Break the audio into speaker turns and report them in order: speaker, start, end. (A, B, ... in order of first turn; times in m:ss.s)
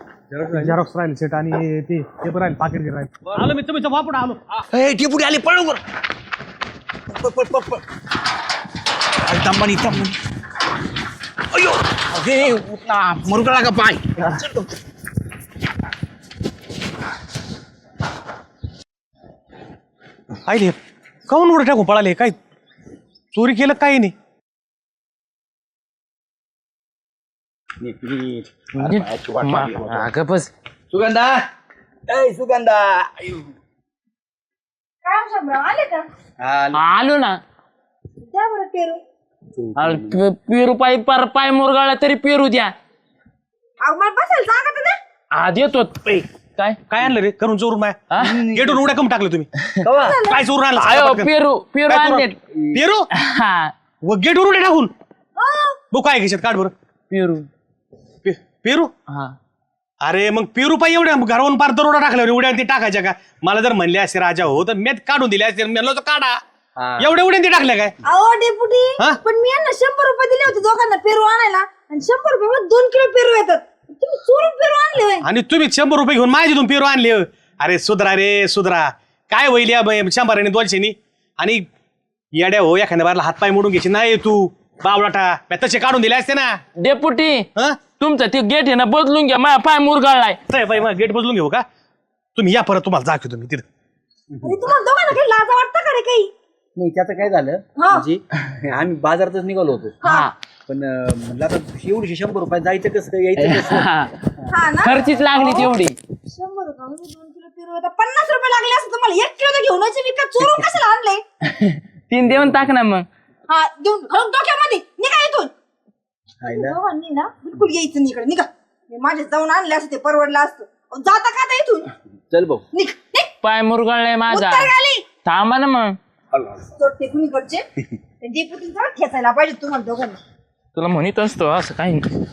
0:00.3-0:00.7 A
0:00.5-0:04.4 B
0:04.6-0:05.8 A
0:07.0-0:07.8 A
0:09.2-0:10.2 A
0:11.5-0:14.6 A
0:20.4-0:20.8 B
0:21.3-0:22.4 B
0:23.3-0:24.1 B
0:27.8-0:30.1 A
0:28.8-0:30.5 C
0:30.9-0:31.4 A
0:32.1-0:33.5 A
0:35.0-0:36.1 D
0:36.4-0:36.9 A
0:36.7-0:37.4 C
0:38.2-0:39.0 D
0:39.5-0:40.2 A
0:39.7-0:42.7 C
0:43.8-0:45.0 D
0:45.3-0:46.8 C
0:46.9-0:49.5 B
0:48.1-0:48.4 C
0:48.2-0:49.0 A
0:49.8-0:50.2 A
0:50.0-0:50.4 D
0:50.2-0:51.3 B
0:50.8-0:52.4 C
0:51.9-0:53.1 B
0:53.1-0:53.7 C
0:54.0-0:54.9 B
0:55.4-0:55.8 D
0:55.9-0:56.7 B
0:57.1-0:57.5 C
0:58.2-0:58.9 B
0:59.1-0:59.3 C
1:00.0-1:06.4 B
1:06.8-1:07.1 A
1:07.0-1:07.9 B
1:08.0-1:15.2 D
1:15.2-1:21.6 B
1:22.3-1:26.6 B
1:26.8-1:30.4 C
1:27.6-1:27.8 B
1:30.5-1:31.6 B
1:32.4-1:33.6 B
1:34.4-1:36.3 D
1:36.8-1:40.1 A
1:37.8-1:38.0 D
1:40.0-1:40.3 D
1:40.1-1:40.3 C
1:40.6-1:43.9 A
1:43.4-1:44.1 C
1:44.5-1:45.7 D
1:44.8-1:46.0 C
1:46.2-1:51.2 D
1:51.4-1:53.1 C
1:52.2-1:52.5 A
1:53.5-1:55.5 D
1:56.4-1:56.8 A
1:56.5-2:01.9 D
2:02.3-2:02.6 A
2:02.7-2:03.3 D
2:03.4-2:04.7 C
2:04.3-2:05.0 D
2:05.2-2:06.0 C
2:06.3-2:06.6 A
2:06.8-2:07.6 D
2:08.2-2:10.2 D
2:10.7-2:12.2 C